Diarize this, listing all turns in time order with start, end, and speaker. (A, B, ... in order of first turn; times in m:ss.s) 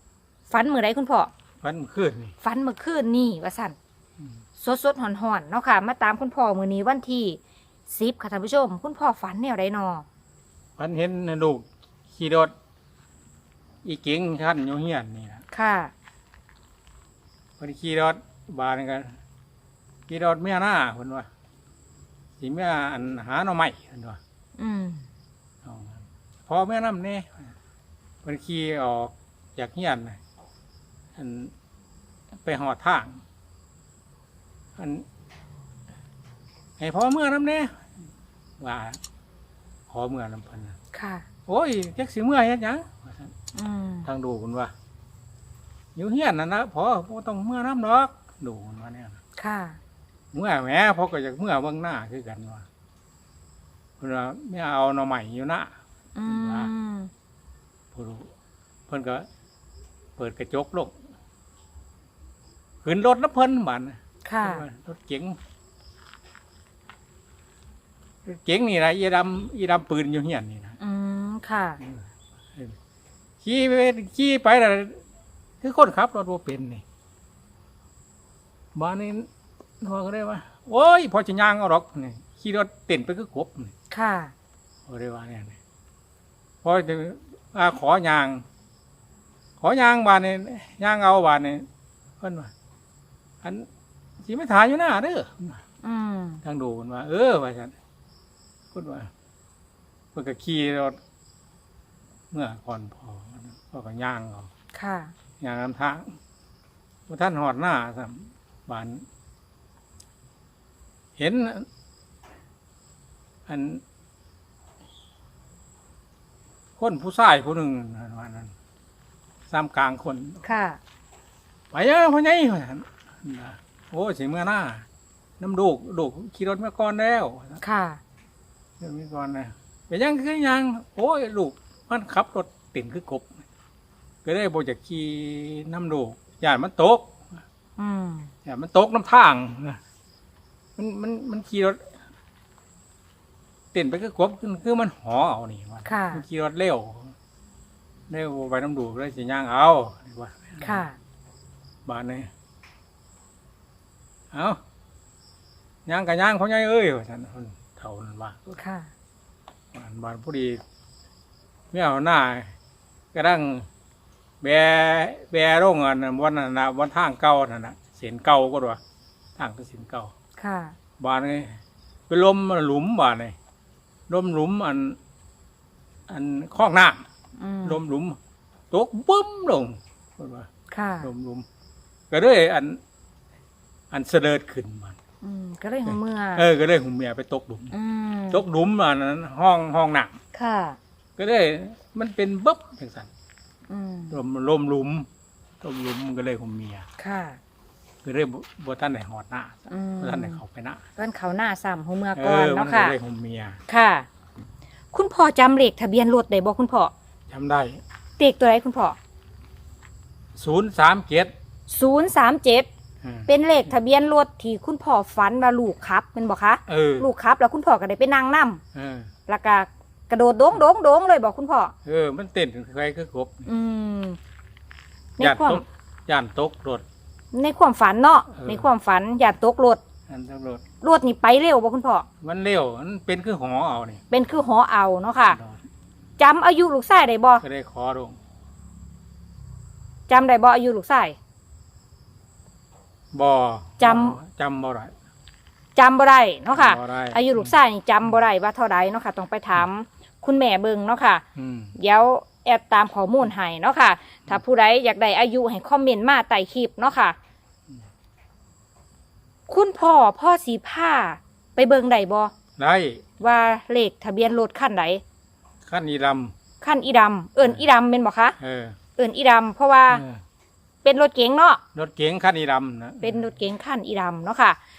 0:00.5-0:01.3 A
0:01.6-0:02.3 B
0:02.4-0:03.8 A
0:04.6-0:10.0 A
0:10.8-0:12.5 B
0:13.8-0:15.4 B
0:15.5-0:15.9 A
0:17.6-0:19.2 B
0:20.1-0:21.3 B
0:22.4-0:24.2 B
0:24.6-0:25.1 A
0:25.6-0:27.5 B
0:28.2-0:30.2 B
0:31.1-0:31.5 B
0:32.4-0:33.2 B
0:34.8-0:35.0 B
0:36.8-0:37.9 B
0:38.6-0:39.0 B
0:39.9-0:40.8 B
0:40.9-0:41.2 A
0:41.5-0:43.3 B
0:43.5-0:44.1 A
0:44.0-0:44.7 B
0:45.9-0:49.2 B
0:49.4-0:49.8 A
0:50.3-0:52.7 B
0:54.0-0:56.7 B
0:56.1-0:57.1 A
0:57.9-0:58.3 B
0:58.9-0:59.3 B
1:00.2-1:01.0 B
1:02.8-1:05.4 B
1:04.2-1:04.6 A
1:08.2-1:10.8 B
1:10.8-1:11.8 A
1:13.4-1:15.0 B
1:15.6-1:16.8 B
1:18.7-1:19.3 B
1:19.8-1:23.7 B
1:23.9-1:24.3 A
1:24.8-1:25.6 B
1:26.6-1:28.4 B
1:29.6-1:31.7 B
1:32.2-1:32.5 B
1:33.4-1:33.7 B
1:34.2-1:35.6 B
1:35.8-1:36.4 A
1:36.4-1:37.7 B
1:38.7-1:39.1 B
1:40.1-1:41.0 B
1:42.3-1:44.5 B
1:44.7-1:45.1 A
1:45.4-1:46.2 B
1:47.1-1:49.0 B
1:51.2-1:51.7 B
1:53.5-1:53.8 B
1:56.8-1:58.5 B
1:59.5-2:00.4 B
2:00.4-2:00.8 A
2:01.7-2:04.8 B
2:05.4-2:07.6 B
2:07.6-2:08.0 A
2:08.8-2:13.4 B
2:14.2-2:17.2 B
2:17.8-2:18.3 A
2:18.4-2:19.8 B
2:20.8-2:21.8 B
2:23.7-2:27.1 B
2:25.8-2:26.2 A
2:28.1-2:30.8 B
2:30.6-2:31.0 A
2:31.8-2:32.3 B
2:34.3-2:34.6 B
2:35.8-2:38.6 B
2:38.6-2:38.9 A
2:39.7-2:40.6 B
2:41.7-2:42.5 B
2:43.1-2:43.7 B
2:44.4-2:48.8 B
2:49.4-2:50.1 B
2:50.4-2:50.7 A
2:51.0-2:53.4 B
2:54.1-2:55.0 B
2:56.1-2:57.1 B
2:57.4-2:57.8 A
2:57.6-2:58.2 B
2:58.7-3:00.5 B
3:00.7-3:01.1 A
3:01.0-3:01.4 B
3:02.1-3:02.8 B
3:03.9-3:05.0 B
3:05.2-3:06.4 A
3:05.9-3:07.7 B
3:07.7-3:08.4 A
3:08.3-3:10.2 B
3:10.3-3:10.8 A
3:11.2-3:13.1 B
3:13.7-3:14.2 A
3:14.1-3:15.1 B
3:15.6-3:16.9 B
3:17.0-3:17.4 A
3:18.0-3:20.8 B
3:19.7-3:20.4 A
3:21.0-3:22.9 A
3:22.1-3:23.6 B
3:23.7-3:24.1 A
3:24.9-3:26.9 A
3:27.3-3:27.8 B
3:28.2-3:29.0 A
3:30.4-3:31.3 B
3:31.7-3:32.7 A
3:33.0-3:33.3 B
3:33.3-3:38.6 A
3:36.7-3:37.1 B
3:38.7-3:39.1 B
3:39.3-3:41.7 A
3:41.8-3:43.5 B
3:43.4-3:44.2 A
3:45.2-3:45.6 A
3:45.2-3:46.8 B
3:47.3-3:49.8 A
3:48.3-3:48.7 B
3:50.1-3:50.6 B
3:50.8-3:52.1 A
3:52.2-3:54.0 B
3:54.1-3:55.4 A
3:55.3-3:55.6 B
3:56.2-3:57.4 A
3:57.4-3:58.2 B
4:00.1-4:01.2 A
4:03.1-4:04.9 B
4:03.8-4:04.2 A
4:05.8-4:11.2 A
4:06.5-4:07.5 B
4:11.3-4:11.7 B
4:11.8-4:17.2 A
4:19.5-4:22.3 A
4:22.6-4:23.0 B
4:23.2-4:25.0 A
4:25.6-4:26.3 B
4:26.6-4:28.4 A
4:28.4-4:28.8 B
4:29.0-4:30.0 A
4:29.9-4:30.2 B
4:30.8-4:31.6 A
4:31.7-4:33.2 B
4:33.0-4:34.6 A